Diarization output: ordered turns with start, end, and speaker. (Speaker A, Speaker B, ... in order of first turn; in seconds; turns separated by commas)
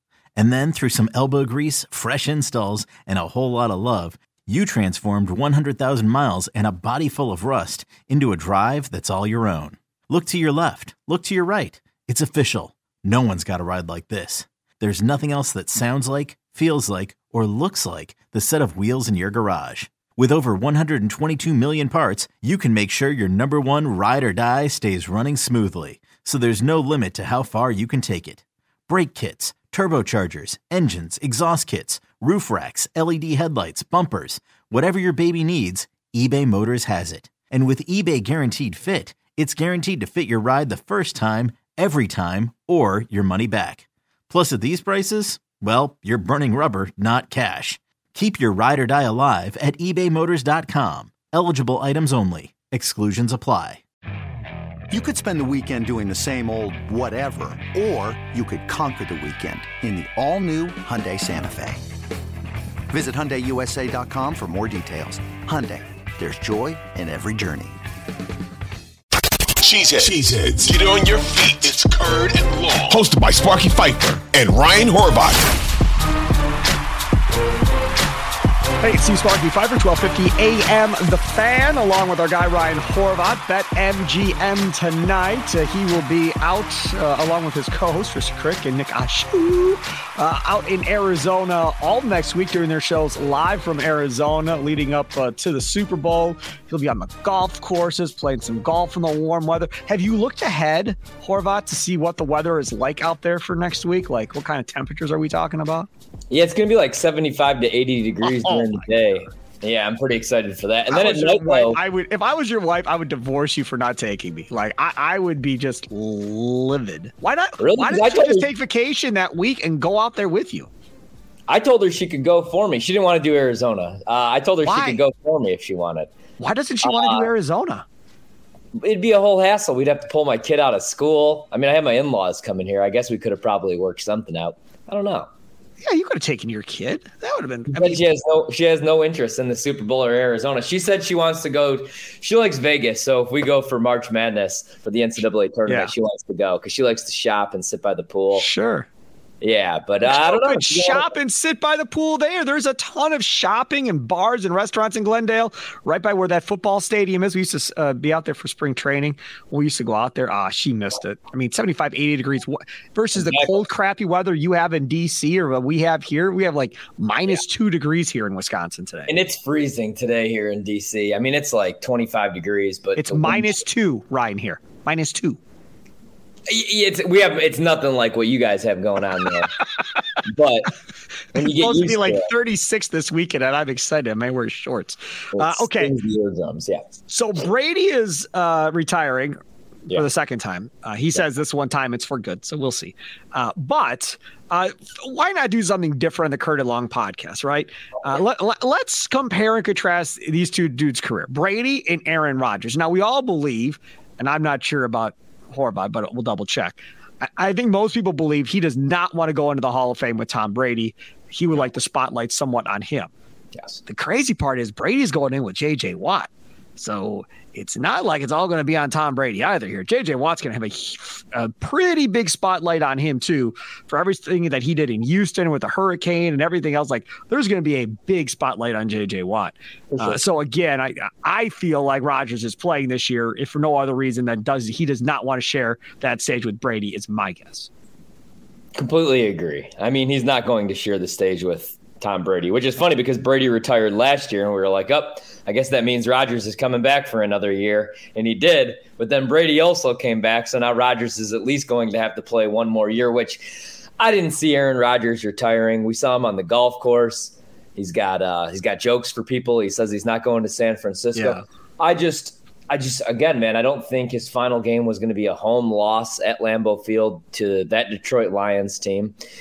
Speaker A: 0.4-53.8, Speaker B: 54.9-61.8, Speaker B: 62.9-67.8, Speaker C: 69.6-75.5, Speaker D: 78.8-105.9, Speaker E: 106.3-111.8, Speaker D: 108.2-108.8, Speaker D: 110.9-120.7, Speaker E: 117.6-118.5, Speaker E: 121.5-126.1, Speaker D: 124.7-125.0, Speaker D: 126.4-127.8, Speaker E: 126.8-127.3, Speaker E: 128.8-135.3, Speaker D: 135.8-138.0, Speaker E: 137.7-148.5, Speaker D: 145.7-145.9, Speaker D: 148.3-148.9, Speaker E: 149.4-151.1, Speaker D: 150.0-169.2, Speaker E: 163.2-163.5, Speaker E: 169.1-173.6, Speaker D: 173.0-175.4, Speaker E: 176.5-179.6, Speaker E: 180.2-180.8, Speaker E: 181.3-182.3, Speaker D: 181.3-185.9, Speaker E: 185.3-186.8, Speaker D: 187.1-189.4, Speaker D: 189.9-213.1, Speaker D: 213.9-237.7, Speaker E: 229.9-230.2, Speaker E: 238.8-269.1, Speaker D: 261.2-261.4